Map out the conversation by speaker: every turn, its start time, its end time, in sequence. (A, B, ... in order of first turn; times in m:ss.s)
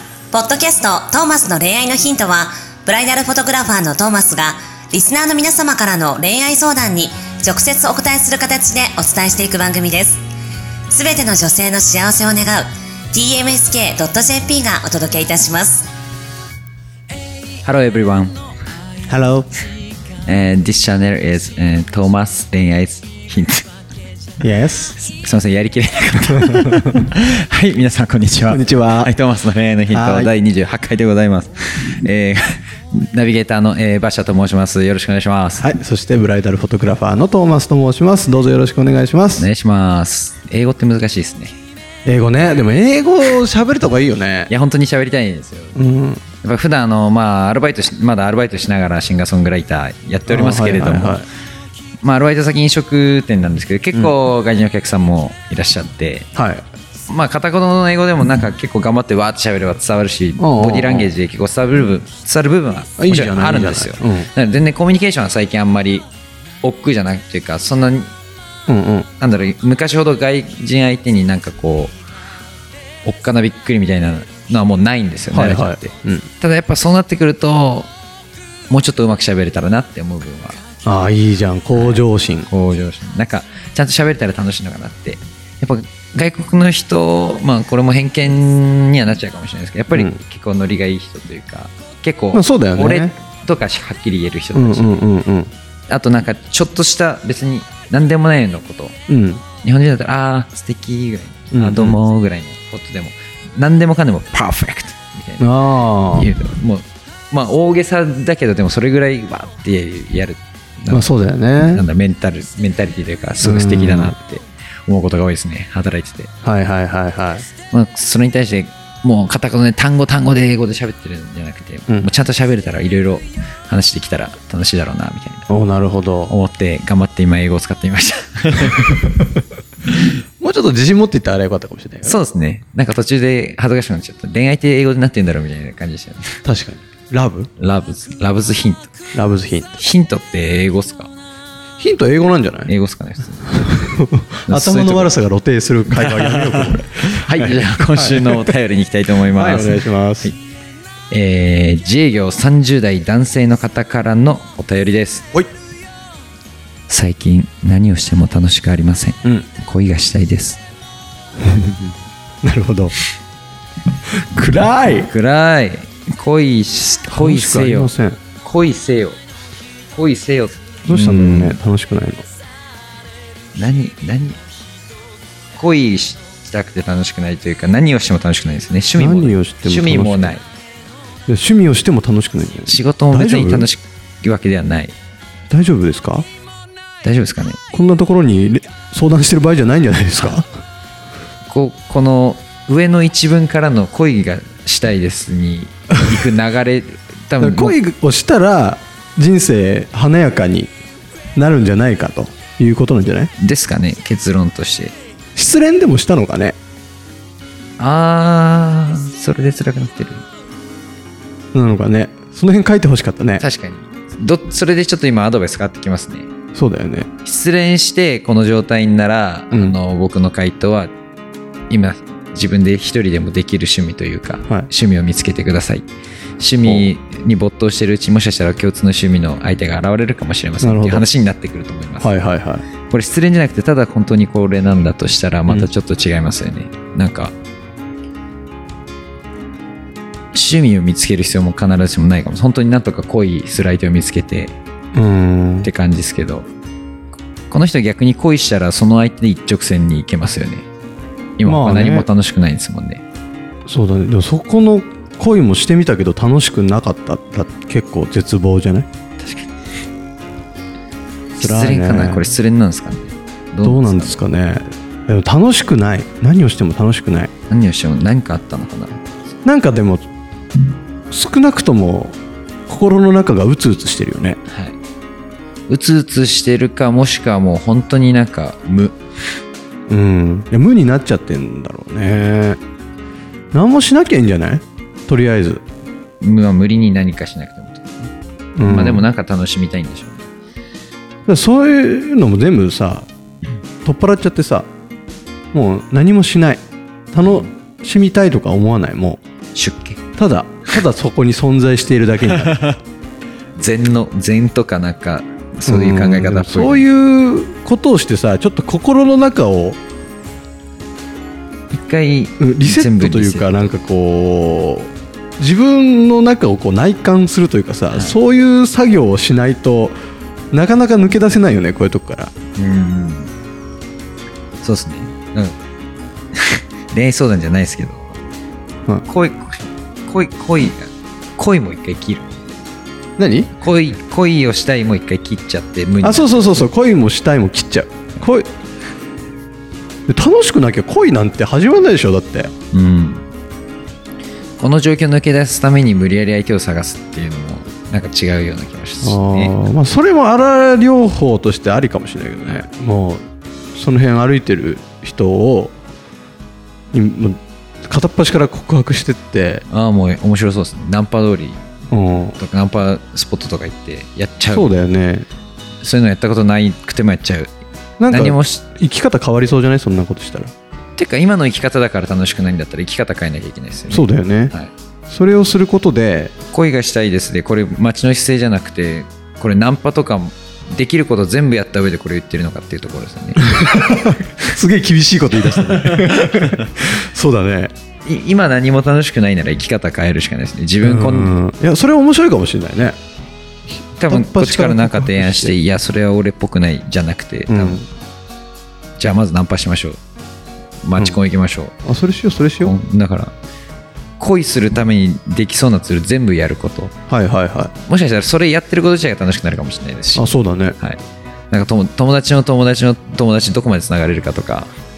0:00.3-0:10.2 A
0:10.9-0:15.9 A
0:17.6-0:18.4 B
0:19.1-0:19.5 C
0:20.2-0:23.7 B
0:24.4-0:25.0 C
0:25.0-0:35.7 B
0:26.3-0:27.1 C
0:28.5-0:29.2 C
0:29.9-0:30.3 C
0:35.6-0:39.5 C
0:39.4-0:41.6 B
0:42.0-0:44.5 C
0:44.5-0:45.8 B
0:45.8-0:46.2 C
0:46.4-0:51.2 B
0:50.3-0:51.3 C
0:52.0-0:56.3 B
0:56.4-0:56.6 C
0:57.1-1:06.1 B
1:00.4-1:01.1 C
1:03.0-1:04.3 C
1:06.6-1:08.1 B
1:08.7-1:09.1 C
1:09.2-1:12.0 B
1:13.0-1:17.9 B
1:15.3-1:16.3 C
1:18.7-1:20.6 B
1:20.8-1:22.5 C
1:21.7-1:35.0 B
1:29.9-1:30.2 C
1:32.3-1:33.2 C
1:34.5-1:35.5 C
1:35.9-1:39.0 B
1:39.1-1:39.4 C
1:39.6-1:45.5 B
1:41.5-1:42.0 C
1:45.4-1:46.3 C
1:46.1-1:51.1 B
1:50.9-1:51.8 C
1:51.6-1:56.3 B
1:53.4-1:54.2 C
1:56.4-1:57.5 C
1:57.7-2:05.5 B
2:05.5-2:06.3 C
2:06.3-2:09.2 B
2:10.4-2:12.2 C
2:12.0-2:16.4 B
2:16.4-2:17.5 C
2:17.6-2:18.9 B
2:19.1-2:19.7 C
2:19.8-2:21.1 B
2:21.8-2:22.7 C
2:22.7-2:25.1 B
2:23.5-2:28.5 C
2:25.9-2:30.4 B
2:29.3-2:30.3 C
2:31.1-2:35.3 B
2:36.9-2:40.6 B
2:41.4-2:41.9 C
2:42.4-2:42.9 C
2:44.1-2:45.1 C
2:45.0-2:49.2 B
2:47.1-2:48.2 C
2:49.9-2:51.6 B
2:50.9-2:52.2 C
2:53.6-2:54.4 B
2:55.6-3:00.5 B
2:59.0-3:00.4 C
3:01.3-3:03.7 C
3:02.7-3:05.0 B
3:05.5-3:06.3 C
3:07.0-3:07.6 B
3:07.7-3:10.5 C
3:10.1-3:10.4 B
3:11.5-3:17.8 B
3:17.4-3:20.7 C
3:21.4-3:23.3 C
3:23.4-3:25.0 B
3:25.4-3:26.6 C
3:27.8-3:30.2 B
3:31.5-3:33.4 C
3:33.4-3:36.3 B
3:36.6-3:37.1 C
3:37.2-3:40.9 B
3:39.5-3:39.8 C
3:41.7-3:45.9 B
3:46.4-3:52.1 B
3:46.6-3:46.9 C
3:50.6-3:51.1 C
3:52.0-3:52.6 C
3:52.9-3:57.3 B
4:00.3-4:04.6 B
4:04.9-4:05.7 C
4:05.6-4:06.5 B
4:07.5-4:10.7 B
4:11.4-4:13.0 B
4:11.4-4:12.1 C
4:13.7-4:18.9 C
4:19.2-4:19.5 B
4:21.4-4:24.2 B
4:21.4-4:22.3 C
4:23.6-4:27.3 C
4:27.5-4:29.0 B
4:29.4-4:30.1 C
4:31.1-4:32.2 C
4:32.7-4:34.4 C
4:34.5-4:34.8 B
4:35.7-4:39.0 B
4:39.9-4:42.6 C
4:43.5-4:45.6 C
4:46.2-4:50.3 B
4:48.6-4:49.1 C
4:51.3-4:53.1 C
4:53.8-4:54.7 C
4:55.5-4:59.2 C
4:57.2-4:57.5 B
4:59.6-5:00.0 B
5:00.2-5:02.6 C
5:02.5-5:02.8 B
5:03.6-5:06.9 B
5:05.7-5:09.8 C
5:11.7-5:13.5 B
5:12.4-5:20.0 C
5:20.5-5:22.3 C
5:22.6-5:23.3 B
5:24.6-5:25.6 B
5:26.4-5:28.2 B
5:29.1-5:32.4 B
5:33.2-5:33.5 C
5:33.6-5:36.5 B
5:36.0-5:38.5 C
5:40.1-5:42.5 C
5:42.7-5:43.3 B
5:44.6-5:49.5 B
5:49.0-5:53.2 C
5:53.8-5:55.8 C
5:56.9-5:59.6 C
5:59.7-6:01.7 B
6:01.9-6:02.4 C
6:02.3-6:04.7 B
6:04.5-6:05.3 C
6:05.8-6:07.6 B
6:08.0-6:10.5 C
6:08.1-6:08.6 B
6:11.0-6:14.7 B
6:13.9-6:14.5 C
6:15.1-6:16.3 C
6:16.5-6:24.2 B
6:23.4-6:27.7 C
6:25.4-6:26.7 B
6:28.0-6:31.4 B
6:30.8-6:33.0 C
6:33.7-6:35.6 C
6:34.0-6:37.8 B
6:37.5-6:37.9 C
6:39.0-6:40.0 B
6:40.8-6:41.8 B
6:41.8-6:42.8 C
6:42.6-6:43.3 B
6:44.2-6:46.9 B
6:47.1-6:47.7 C
6:47.9-6:54.7 B
6:50.2-6:50.8 C